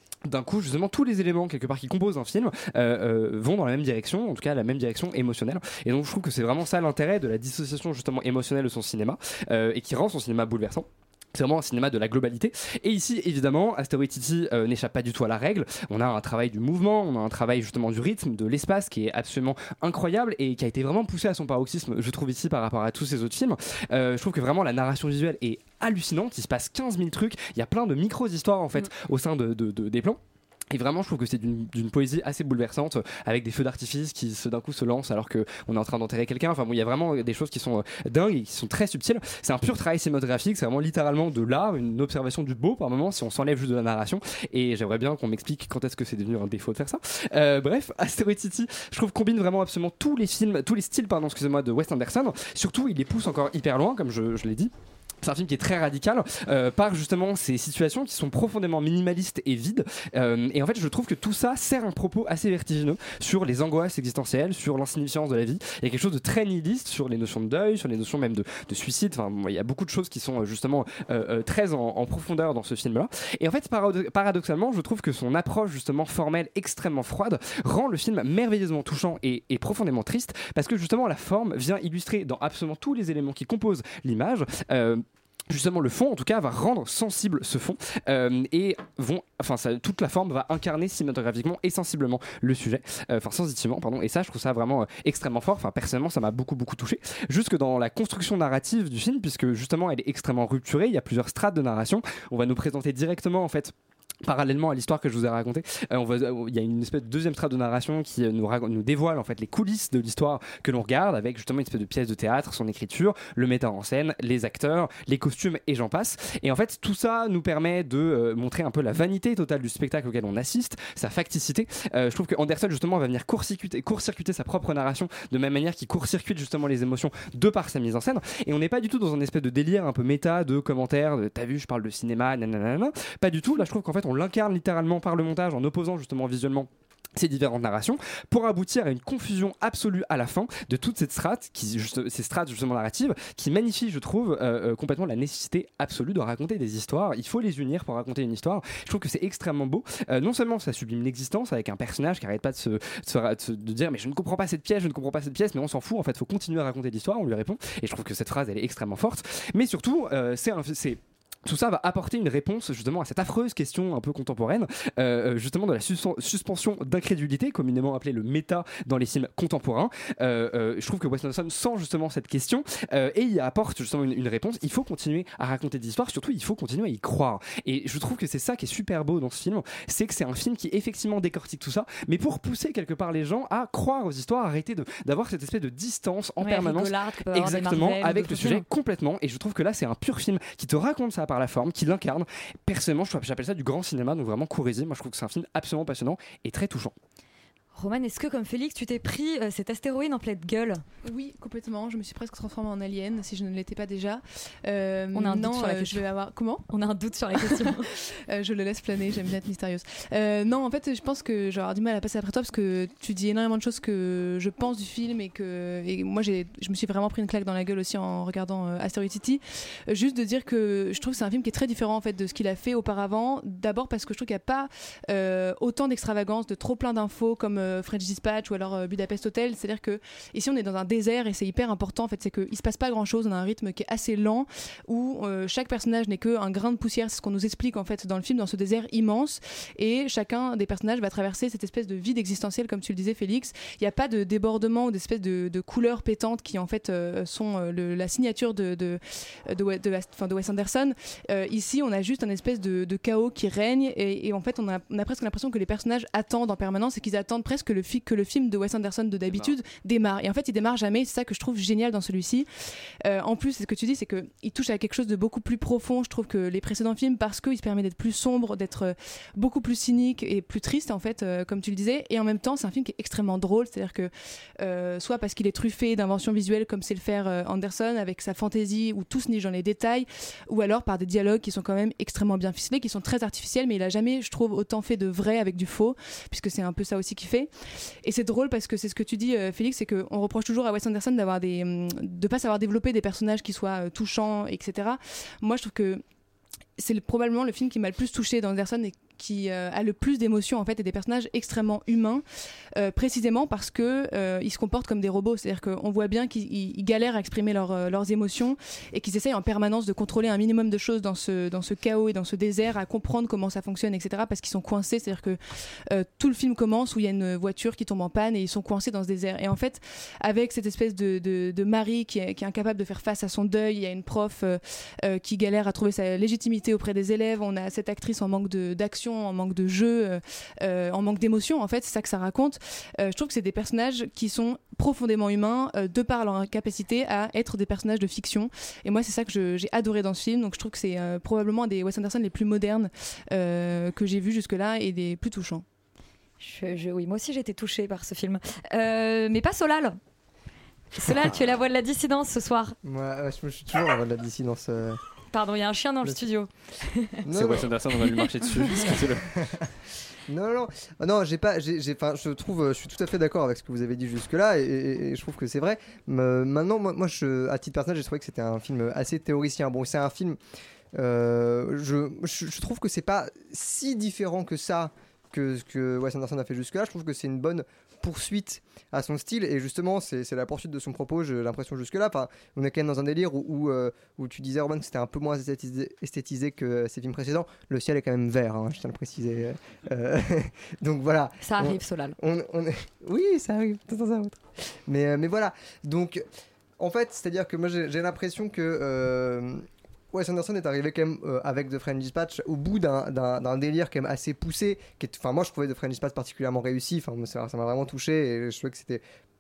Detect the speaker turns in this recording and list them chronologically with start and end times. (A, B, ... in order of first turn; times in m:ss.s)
0:00.2-3:16.9 A
3:06.4-3:08.6 B
3:17.8-3:20.8 B
3:21.0-3:26.6 C
3:25.1-3:26.1 B
3:26.7-3:27.9 B
3:27.4-4:22.5 C
4:19.3-4:19.6 A
4:23.0-4:47.5 C
4:48.0-4:56.0 C
4:56.8-5:45.6 C
5:46.4-5:50.0 B
5:51.0-5:52.8 B
5:52.8-5:55.0 D
5:55.3-5:57.2 B
5:57.2-5:57.7 D
5:57.3-5:59.3 A
6:00.3-6:10.4 D
6:10.9-6:36.2 D
6:31.4-6:32.2 B
6:36.8-6:49.0 D